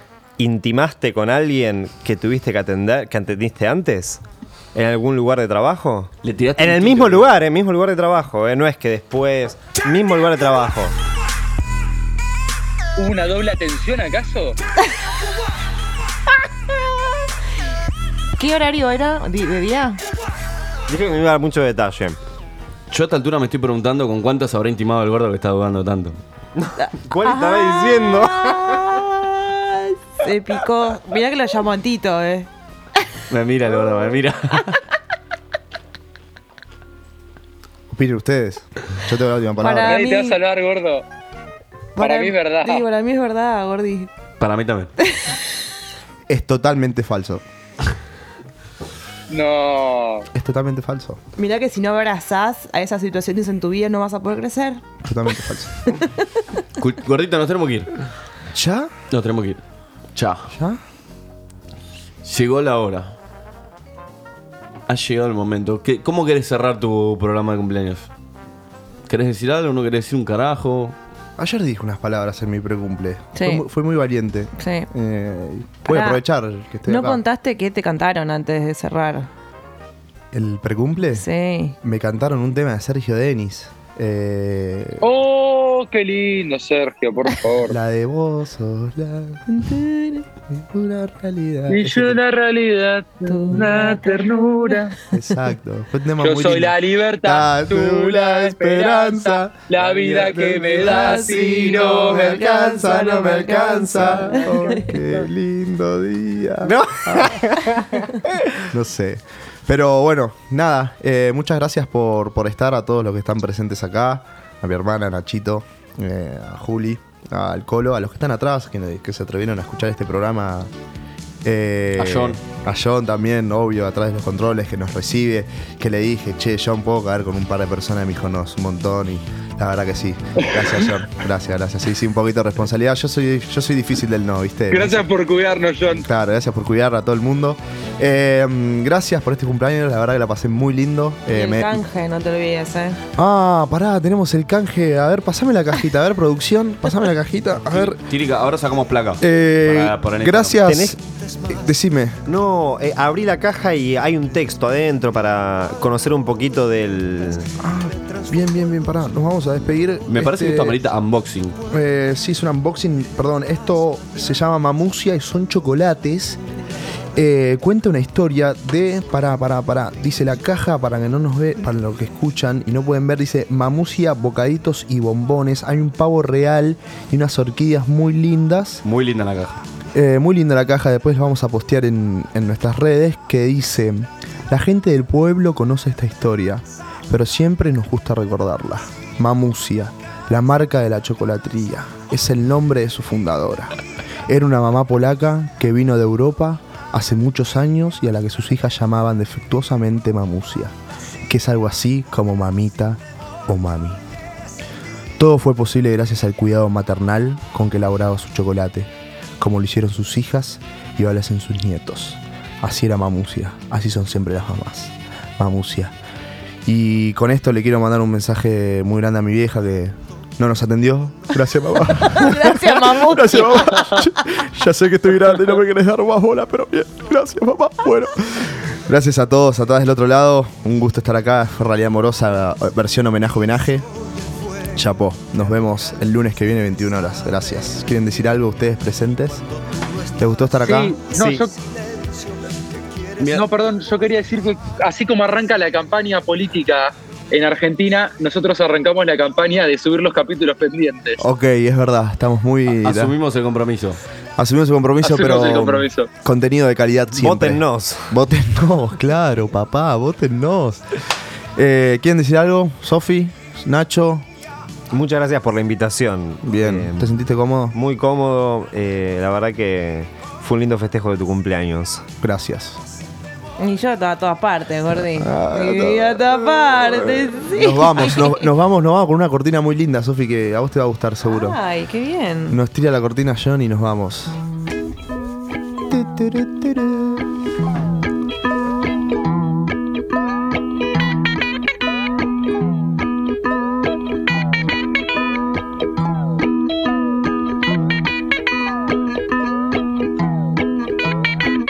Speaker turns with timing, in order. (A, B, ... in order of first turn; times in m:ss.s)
0:00.4-0:04.2 A
0:04.7-0:10.9 A
0:06.2-0:07.3 B
0:13.0-0:14.6 C
0:18.4-0:20.0 D
0:20.9-0:22.2 A
0:22.9-0:26.2 B
0:26.6-0:29.0 A
0:26.8-0:32.5 D
0:33.3-0:34.8 B
0:37.9-0:40.0 E
0:39.6-0:40.4 D
0:39.8-0:41.0 C
0:42.0-0:44.1 D
0:42.0-0:42.8 C
0:44.4-0:44.9 B
0:46.3-0:47.4 E
0:49.3-0:50.2 C
0:50.3-0:51.2 E
0:51.4-0:54.8 D
0:55.0-0:55.8 E
0:56.8-0:57.9 B
0:58.5-0:58.9 E
0:59.1-0:59.6 B
1:00.1-1:00.5 B
1:00.5-1:00.8 E
1:02.2-1:03.1 B
1:04.9-1:08.1 B
1:09.1-1:10.9 B
1:11.4-1:17.2 E
1:13.4-1:13.6 D
1:14.6-1:14.9 D
1:15.8-1:16.2 D
1:16.9-1:19.3 D
1:20.3-1:21.3 E
1:21.1-1:21.8 D
1:21.8-1:25.1 E
1:25.0-1:27.8 C
1:27.6-1:29.4 E
1:29.5-1:30.2 D
1:30.5-1:32.2 E
1:31.7-1:35.0 C
1:33.2-1:34.7 D
1:35.1-1:47.4 E
1:36.2-1:43.4 C
1:40.9-1:41.5 D
1:43.6-1:44.1 A
1:44.3-1:44.9 D
1:46.6-1:48.2 A
1:48.7-2:00.7 E
2:01.4-2:15.0 E
2:02.0-2:02.4 B
2:14.7-2:16.0 C
2:16.0-2:21.8 E
2:21.3-2:23.0 D
2:23.2-2:28.0 E
2:27.7-2:30.6 B
2:29.2-2:32.2 E
2:30.6-2:31.0 A
2:32.3-2:37.5 A
2:37.6-2:40.8 E
2:40.1-2:41.6 B
2:41.7-2:46.4 E
2:47.1-2:58.8 E
2:58.8-2:59.6 B
2:59.9-3:20.7 E
3:21.2-3:24.0 E
3:25.2-3:35.9 E
3:36.6-3:53.9 E
3:41.9-3:44.0 D
3:54.7-3:59.4 E
4:00.2-4:01.0 E
4:00.6-4:01.5 C
4:01.2-4:01.4 A
4:03.2-4:03.4 B
4:03.3-4:11.2 C
4:11.2-4:13.1 E
4:12.7-4:14.0 B
4:14.4-4:20.8 E
4:15.0-4:16.1 C
4:17.1-4:18.1 A
4:21.6-4:24.2 E
4:24.9-4:27.1 A
4:26.4-4:27.7 E
4:27.7-4:32.1 A
4:32.2-4:32.8 E
4:33.6-4:38.5 D
4:34.9-4:41.6 E
4:41.2-4:42.6 D
4:42.5-4:44.4 E
4:45.9-4:47.2 E